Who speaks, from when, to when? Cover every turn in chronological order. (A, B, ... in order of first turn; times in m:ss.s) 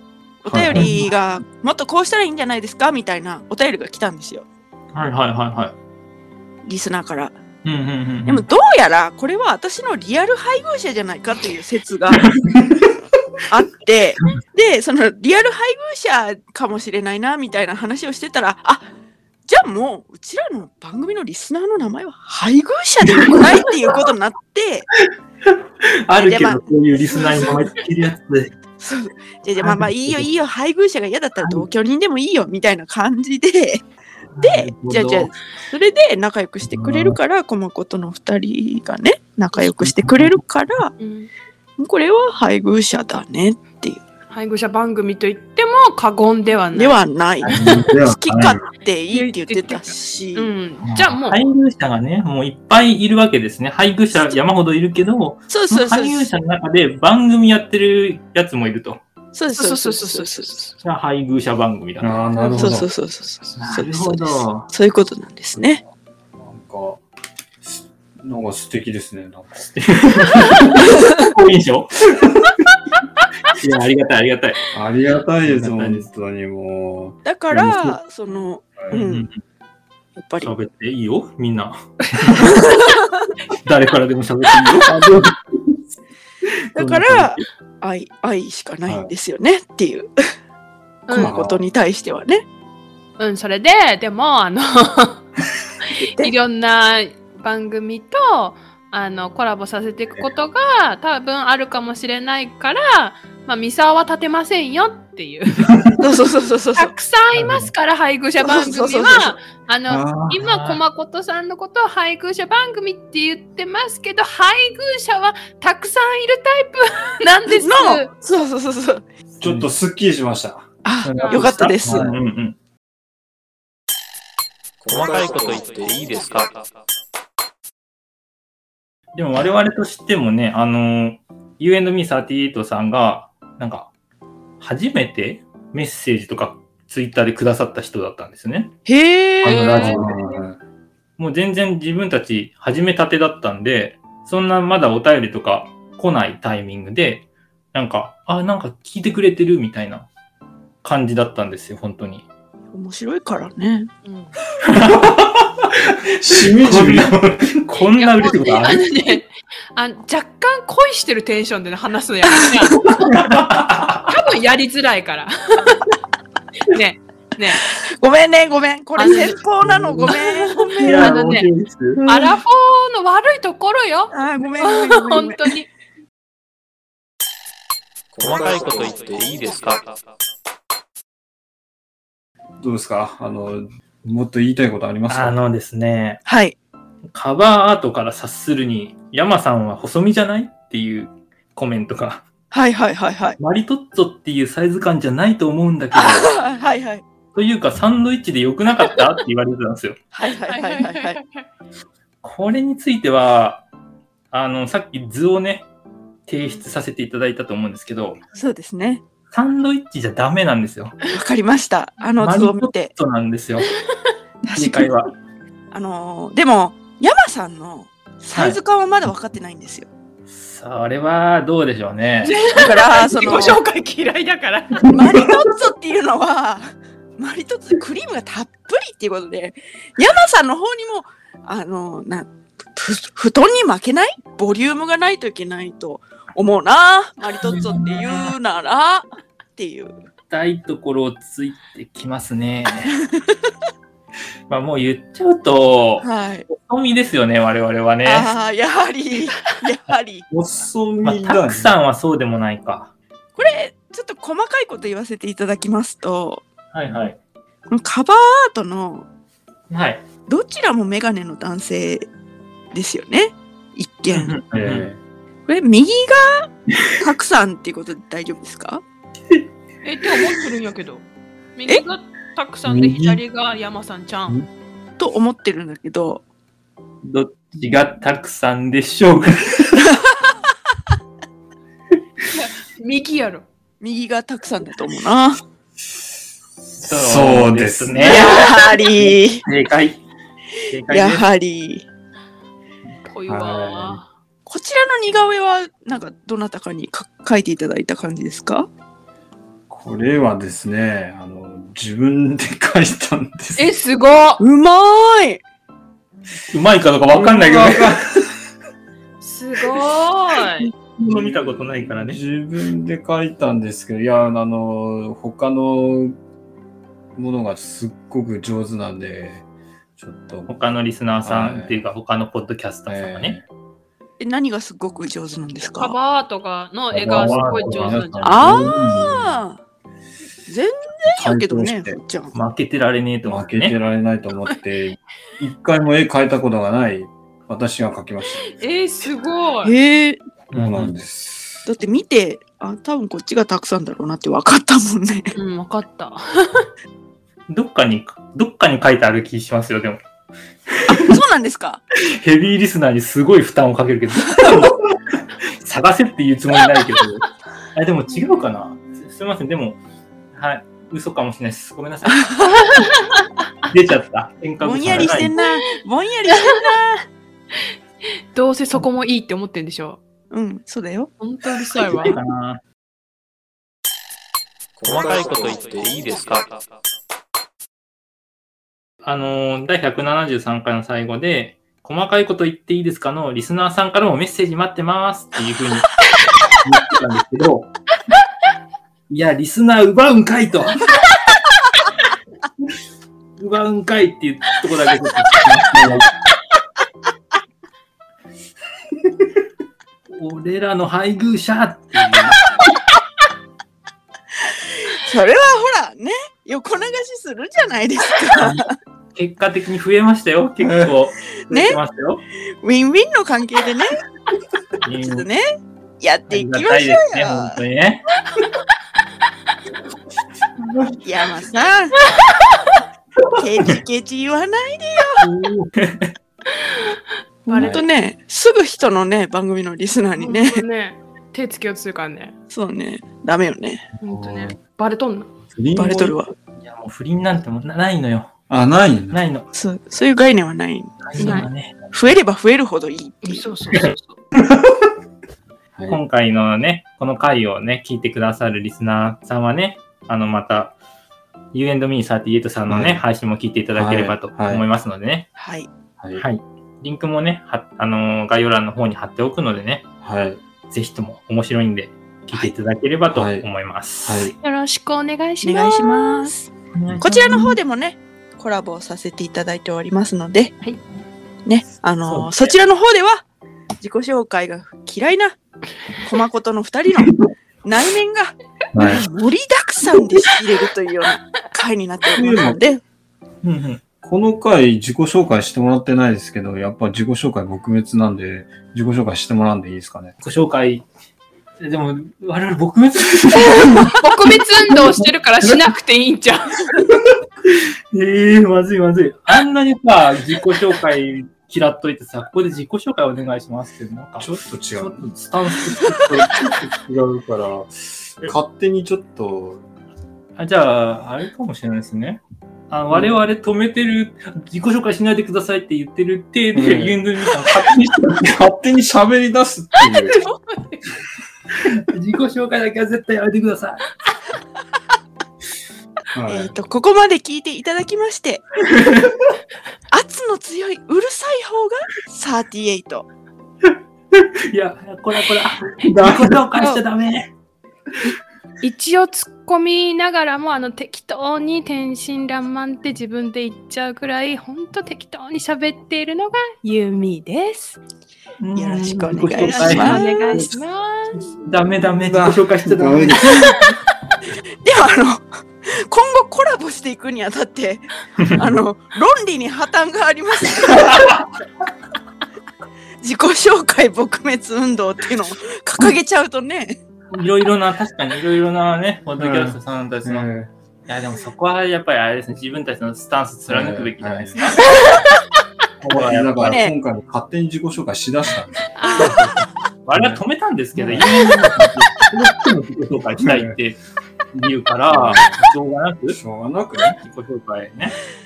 0:00.4-0:04.5 A
0:00.5-0:01.0 B
0:00.7-0:01.1 C
0:05.0-0:05.8 C
0:06.6-0:07.4 A
0:07.6-0:08.5 C
0:08.3-0:12.3 A
0:12.3-0:12.6 C
0:13.5-0:18.8 A
0:19.5-0:24.9 A
0:25.0-0:28.5 C
0:26.2-0:27.6 A
0:28.8-0:33.8 A
0:29.6-0:30.3 C
0:34.4-0:35.3 C
0:34.4-0:40.9 A
0:36.7-0:37.2 C
0:39.8-0:40.3 C
0:41.0-0:41.3 D
0:41.8-0:44.0 A
0:44.3-0:47.9 D
0:46.7-0:47.6 A
0:47.5-0:48.4 B
0:47.6-0:48.6 C
0:48.1-0:50.5 A
0:49.1-0:51.4 D
0:50.8-0:59.0 C
0:54.1-0:54.4 D
0:55.5-0:56.3 A
0:59.3-1:00.5 A
0:59.5-1:00.8 D
1:00.8-1:02.2 C
1:02.0-1:02.9 B
1:02.4-1:02.7 D
1:02.6-1:05.8 A
1:03.4-1:03.7 D
1:03.6-1:04.7 C
1:06.4-1:07.0 B
1:07.6-1:09.8 B
1:09.8-1:12.3 C
1:13.6-1:16.1 C
1:14.7-1:18.0 B
1:17.2-1:19.3 A
1:18.9-1:19.4 C
1:20.2-1:20.5 A
1:20.4-1:22.6 C
1:23.6-1:25.8 C
1:26.8-1:27.4 C
1:26.8-1:30.1 A
1:31.1-1:31.4 D
1:31.1-1:32.4 A
1:31.1-1:31.6 B
1:33.2-1:35.3 D
1:35.8-1:45.9 D
1:36.1-1:36.3 A
1:46.0-1:46.9 A
1:46.8-1:58.1 D
1:47.3-1:47.7 C
1:48.4-1:49.4 A
1:49.9-1:50.3 B
1:50.3-1:50.8 C
1:57.4-1:59.0 A
1:59.4-2:00.7 B
1:59.4-1:59.7 C
2:00.8-2:01.9 A
2:01.0-2:02.6 C
2:01.2-2:01.6 D
2:01.8-2:02.2 B
2:04.8-2:06.5 E
2:09.2-2:13.9 C
2:14.6-2:18.7 C
2:18.9-2:20.0 A
2:19.4-2:20.2 C
2:19.5-2:20.0 D
2:19.8-2:20.6 B
2:21.2-2:30.1 C
2:30.8-2:32.3 C
2:32.7-2:33.9 A
2:34.0-2:34.4 D
2:34.7-2:35.7 C
2:36.2-2:37.2 B
2:36.4-2:39.2 C
2:37.9-2:43.3 D
2:43.1-2:44.0 C
2:44.0-2:46.0 D
2:46.6-2:47.7 D
2:47.5-2:51.2 A
2:49.0-2:49.5 D
2:49.2-2:50.2 C
2:50.0-2:51.5 D
2:50.8-2:52.0 C
2:52.0-2:52.4 A
2:52.1-2:55.7 D
2:54.1-2:55.6 A
2:58.2-2:59.8 E
3:02.6-3:05.4 B
3:05.1-3:06.2 C
3:06.3-3:06.6 A
3:07.1-3:12.3 C
3:12.5-3:13.4 A
3:13.4-3:16.3 C
3:16.0-3:17.0 A
3:17.3-3:20.0 C
3:20.1-3:21.2 A
3:20.3-3:21.5 D
3:22.2-3:23.7 C
3:24.3-3:25.7 C
3:26.3-3:28.2 C
3:28.4-3:29.0 A
3:29.3-3:31.0 C
3:31.1-3:32.9 A
3:32.2-3:33.7 C
3:34.5-3:34.9 A
3:34.6-3:35.1 C
3:35.7-3:39.9 A
3:38.3-3:38.6 C
3:40.3-3:42.4 C
3:42.2-3:45.0 D
3:42.5-3:43.6 A
3:44.9-3:59.9 A
3:57.4-3:58.3 C
4:00.3-4:03.0 C
4:04.5-4:08.3 C
4:06.0-4:06.5 A
4:08.0-4:10.2 A
4:10.3-4:11.7 B
4:11.0-4:12.9 C
4:13.4-4:16.4 A
4:16.7-4:17.2 C
4:17.7-4:19.1 A
4:19.7-4:20.0 C
4:20.3-4:22.1 A
4:22.7-4:24.4 A
4:24.1-4:24.9 C
4:24.5-4:25.0 B
4:25.5-4:28.8 A
4:29.8-4:31.0 D
4:31.6-4:34.4 D
4:32.6-4:33.2 B
4:35.0-4:36.2 A
4:37.0-4:39.9 C
4:42.4-4:43.5 D
4:43.8-4:45.4 A
4:46.8-4:48.2 B
4:46.8-4:50.0 C
4:48.0-4:49.4 A
4:50.7-4:51.3 C
4:50.9-4:51.9 A
4:53.0-4:54.1 D
4:53.3-4:54.0 B
4:54.5-4:58.7 A
4:59.7-5:03.7 B
5:03.6-5:04.4 D
5:04.4-5:05.4 A
5:06.5-5:07.9 C
5:07.1-5:08.2 B
5:09.2-5:10.7 D
5:10.6-5:12.2 C
5:11.0-5:16.2 B
5:17.2-5:19.4 B
5:20.0-5:20.6 B
5:20.5-5:23.4 C
5:21.2-5:21.8 B
5:22.9-5:23.5 B
5:24.2-5:26.0 A
5:25.7-5:28.6 D
5:26.9-5:29.3 B
5:27.1-5:28.4 C
5:28.2-5:29.6 A
5:30.5-5:32.4 A
5:31.1-5:32.0 B
5:32.3-5:33.8 C
5:33.2-5:38.4 B
5:38.4-5:39.8 D
5:39.6-5:40.2 A
5:40.5-5:40.9 C
5:40.5-5:41.7 B
5:41.7-5:45.3 A
5:45.4-5:46.7 D
5:47.5-5:50.0 C
5:50.9-5:51.8 A
5:52.0-5:59.8 C
6:00.3-6:02.3 C
6:02.3-6:02.7 A
6:02.7-6:03.3 D
6:03.7-6:05.4 C
6:04.6-6:07.0 A
6:05.3-6:06.8 D
6:08.3-6:10.0 D
6:10.3-6:11.7 A
6:11.2-6:12.2 D
6:11.8-6:12.6 C
6:14.8-6:16.5 E
6:19.0-6:26.0 C
6:26.6-6:27.7 C
6:29.1-6:30.9 C
6:33.4-6:36.1 C
6:35.7-6:36.0 B
6:40.2-6:42.4 C
6:44.8-6:48.7 A
6:48.4-6:52.2 C
6:51.5-6:51.8 A
6:52.6-6:54.0 A
6:54.8-6:55.3 C
6:55.0-6:55.5 A
6:56.0-6:57.6 A
6:56.3-6:58.0 C
7:01.0-7:02.0 A
7:02.2-7:02.5 D
7:03.4-7:05.2 A
7:05.2-7:06.1 C
7:06.6-7:07.9 D
7:07.5-7:10.6 A
7:07.6-7:07.8 B
7:10.2-7:12.3 D
7:12.5-7:13.9 A
7:14.0-7:15.3 D
7:14.1-7:14.6 B
7:15.5-7:16.1 B
7:15.8-7:16.3 A
7:16.6-7:18.3 C
7:18.5-7:19.2 B
7:19.1-7:19.5 C
7:19.5-7:21.4 A
7:21.0-7:21.8 C
7:21.2-7:21.5 D
7:21.9-7:23.5 A
7:23.2-7:24.2 D
7:25.9-7:30.8 C
7:31.5-7:35.3 C
7:32.7-7:33.0 B
7:33.8-7:34.6 B
7:35.4-7:35.7 A
7:36.2-7:39.8 C
7:40.0-7:40.4 B
7:40.7-7:44.3 C
7:43.1-7:43.5 B
7:44.0-7:44.3 B
7:44.4-7:46.5 D
7:45.4-7:46.3 A
7:46.7-7:47.6 C
7:47.0-7:50.5 A
7:51.5-7:53.2 A
7:52.1-7:52.5 C
7:53.8-7:55.4 A
7:56.0-8:02.8 A
7:58.8-7:59.0 B
8:02.2-8:02.6 B
8:03.4-8:03.8 C
8:04.0-8:10.2 B
8:10.2-8:10.8 C
8:11.6-8:14.0 C
8:13.4-8:16.7 D
8:14.8-8:15.6 C
8:17.5-8:26.4 C
8:24.2-8:25.1 B
8:26.1-8:29.7 B
8:30.4-8:38.3 C
8:32.9-8:33.2 B
8:36.5-8:37.0 B
8:38.2-8:40.2 B
8:40.1-8:40.8 D
8:41.6-8:43.9 C
8:46.1-8:46.5 B
8:46.3-8:48.5 A
8:48.8-8:49.2 C
8:49.9-8:53.1 A
8:54.2-8:57.3 C
8:55.8-8:56.1 D
8:58.0-9:07.8 D
9:08.4-9:10.6 C
9:08.6-9:10.2 A
9:09.3-9:11.3 D
9:11.3-9:13.6 C
9:12.0-9:13.6 B
9:14.6-9:21.2 A
9:23.0-9:26.8 A
9:27.1-9:30.3 C
9:29.2-9:30.5 B
9:30.9-9:34.9 C
9:33.5-9:34.5 B
9:35.8-9:36.3 C
9:35.9-9:39.3 B
9:36.4-9:36.7 A
9:38.8-9:39.2 D
9:39.0-9:43.8 C
9:39.9-9:40.2 B
9:40.8-9:41.3 B
9:43.2-9:43.6 B
9:44.3-9:46.2 C
9:44.9-9:45.4 B
9:46.1-9:47.0 B
9:47.0-9:48.0 C